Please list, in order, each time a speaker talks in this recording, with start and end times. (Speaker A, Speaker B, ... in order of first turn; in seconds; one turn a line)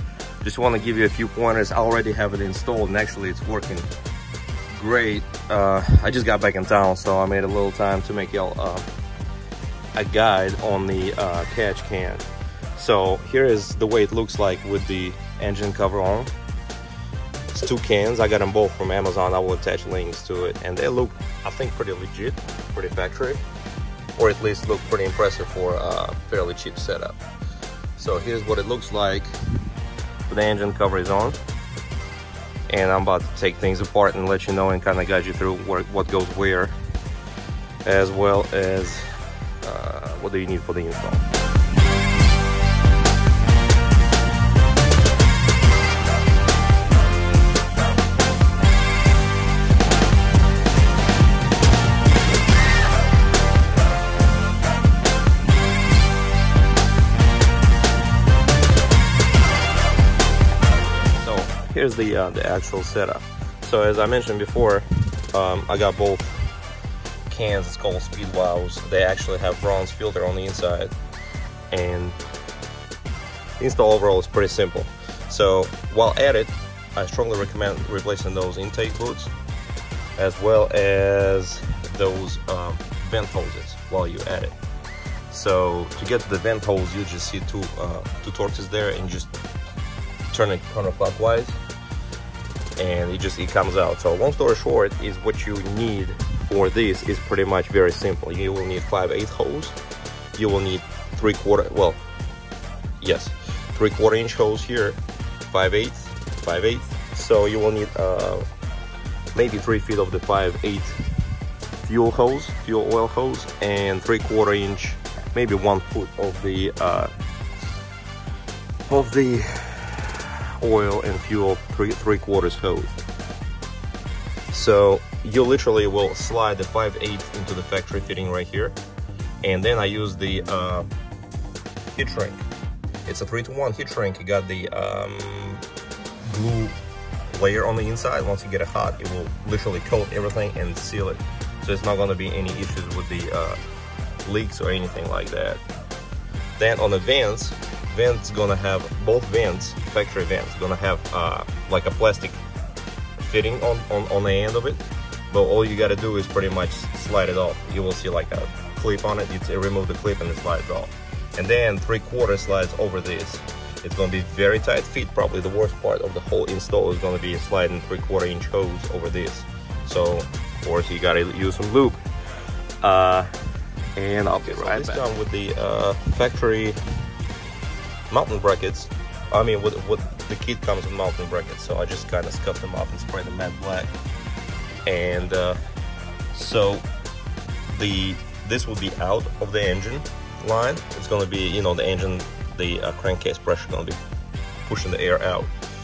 Speaker A: 0.4-3.9
Speaker A: 4.7-8.9
Speaker A: 9.9-16.3
Speaker A: 17.5-23.4
Speaker A: 24.2-27.2
Speaker A: 28.0-29.3
Speaker A: 30.3-31.4
Speaker A: 32.7-36.8
Speaker A: 37.8-39.1
Speaker A: 39.6-41.2
Speaker A: 61.1-66.4
Speaker A: 67.3-70.9
Speaker A: 71.7-72.2
Speaker A: 73.6-79.3
Speaker A: 80.2-84.6
Speaker A: 85.3-89.3
Speaker A: 90.3-91.6
Speaker A: 92.8-99.8
Speaker A: 100.3-102.0
Speaker A: 103.0-108.5
Speaker A: 109.3-111.0
Speaker A: 111.8-117.1
Speaker A: 118.9-123.0
Speaker A: 124.5-128.8
Speaker A: 129.4-130.9
Speaker A: 131.9-132.4
Speaker A: 133.0-135.6
Speaker A: 136.2-136.8
Speaker A: 137.3-143.6
Speaker A: 144.2-145.6
Speaker A: 146.6-152.4
Speaker A: 153.2-172.0
Speaker A: 172.8-173.3
Speaker A: 174.0-176.8
Speaker A: 178.1-183.9
Speaker A: 184.8-185.6
Speaker A: 186.3-186.8
Speaker A: 187.7-194.0
Speaker A: 194.6-195.5